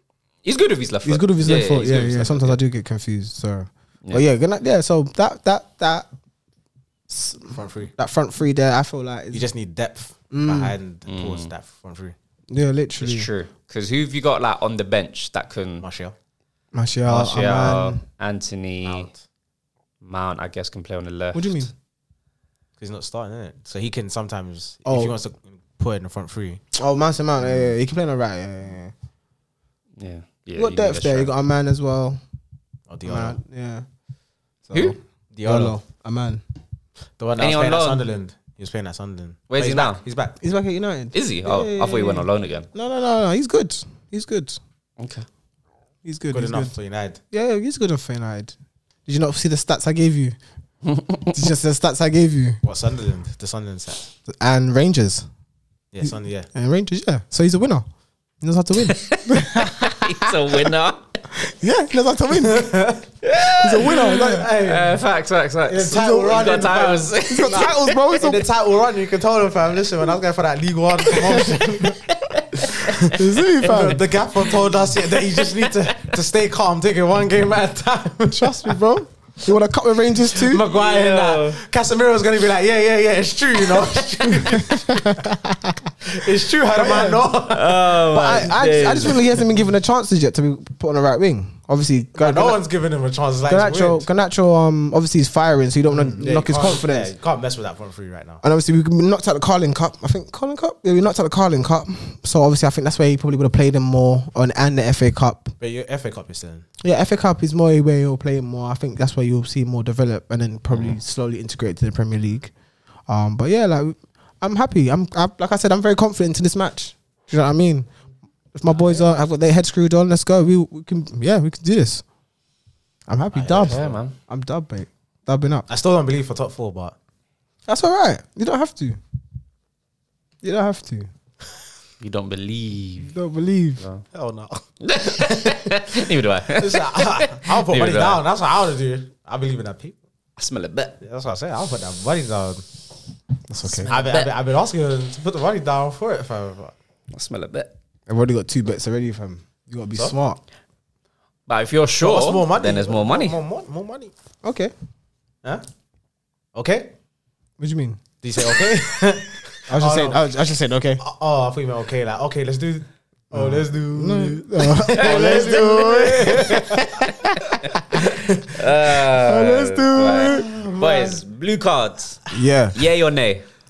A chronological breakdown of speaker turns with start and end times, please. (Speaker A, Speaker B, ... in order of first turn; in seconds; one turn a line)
Speaker A: 0.4-2.6
Speaker B: 1.0-6.1
Speaker B: 7.1-9.5
Speaker C: 7.5-7.9
Speaker C: 9.3-12.1
Speaker B: 10.3-10.7
Speaker A: 11.1-11.5
Speaker B: 12.5-13.3
Speaker A: 13.0-15.8
Speaker C: 15.8-16.1
Speaker B: 16.7-18.0
Speaker A: 17.1-19.1
Speaker C: 18.8-19.2
Speaker A: 20.0-21.7
Speaker B: 21.3-21.7
Speaker C: 22.8-26.6
Speaker B: 24.9-25.1
Speaker B: 26.7-28.9
Speaker C: 27.4-27.7
Speaker A: 30.0-31.3
Speaker B: 30.5-32.2
Speaker C: 32.9-33.4
Speaker B: 33.0-33.8
Speaker B: 34.7-36.4
Speaker C: 35.3-35.8
Speaker C: 37.2-40.4
Speaker A: 37.4-38.0
Speaker A: 39.5-40.0
Speaker B: 40.4-44.6
Speaker A: 41.1-42.7
Speaker A: 45.0-45.2
Speaker B: 46.0-46.7
Speaker C: 46.3-47.2
Speaker B: 47.3-48.5
Speaker B: 49.0-50.4
Speaker A: 50.9-51.3
Speaker B: 51.2-52.6
Speaker C: 52.6-54.1
Speaker B: 54.3-55.2
Speaker C: 55.9-56.5
Speaker B: 56.0-57.9
Speaker B: 58.4-60.7
Speaker A: 58.8-61.0
Speaker B: 61.4-62.9
Speaker C: 62.4-63.0
Speaker A: 63.2-67.9
Speaker B: 63.5-64.5
Speaker C: 64.1-64.9
Speaker C: 65.7-72.0
Speaker B: 65.9-66.7
Speaker B: 67.3-68.5
Speaker B: 71.3-72.0
Speaker A: 71.4-73.2
Speaker C: 72.8-78.8
Speaker B: 73.1-74.0
Speaker B: 78.3-80.6
Speaker C: 80.3-85.1
Speaker A: 80.6-81.6
Speaker B: 84.5-85.9
Speaker C: 86.0-87.8
Speaker B: 86.7-87.3
Speaker A: 87.5-89.3
Speaker B: 88.0-92.6
Speaker C: 92.2-94.0
Speaker B: 93.5-97.1
Speaker C: 95.9-98.4
Speaker B: 98.4-105.5
Speaker C: 105.6-106.7
Speaker B: 106.8-112.5
Speaker B: 113.1-117.9
Speaker B: 118.5-122.0
Speaker B: 123.1-125.7
Speaker C: 123.3-124.0
Speaker A: 123.5-124.1
Speaker C: 125.7-126.9
Speaker B: 127.7-129.0
Speaker B: 130.4-131.1
Speaker A: 132.0-133.1
Speaker B: 133.0-133.8
Speaker C: 134.1-135.6
Speaker A: 134.8-138.2
Speaker C: 136.5-139.9
Speaker A: 140.4-141.0
Speaker C: 141.0-142.6
Speaker B: 143.5-143.9
Speaker A: 143.7-144.3
Speaker C: 143.8-146.7
Speaker A: 147.1-147.7
Speaker B: 148.1-150.4
Speaker A: 151.5-153.4
Speaker C: 152.0-154.1
Speaker B: 154.4-154.7
Speaker C: 156.5-156.9
Speaker B: 157.6-158.8
Speaker C: 158.2-160.2
Speaker B: 159.7-161.0
Speaker C: 161.0-167.0
Speaker B: 163.3-168.0
Speaker A: 165.0-166.4
Speaker C: 167.9-168.5
Speaker A: 167.9-173.4
Speaker B: 168.8-170.6
Speaker C: 170.2-171.2
Speaker B: 172.3-172.8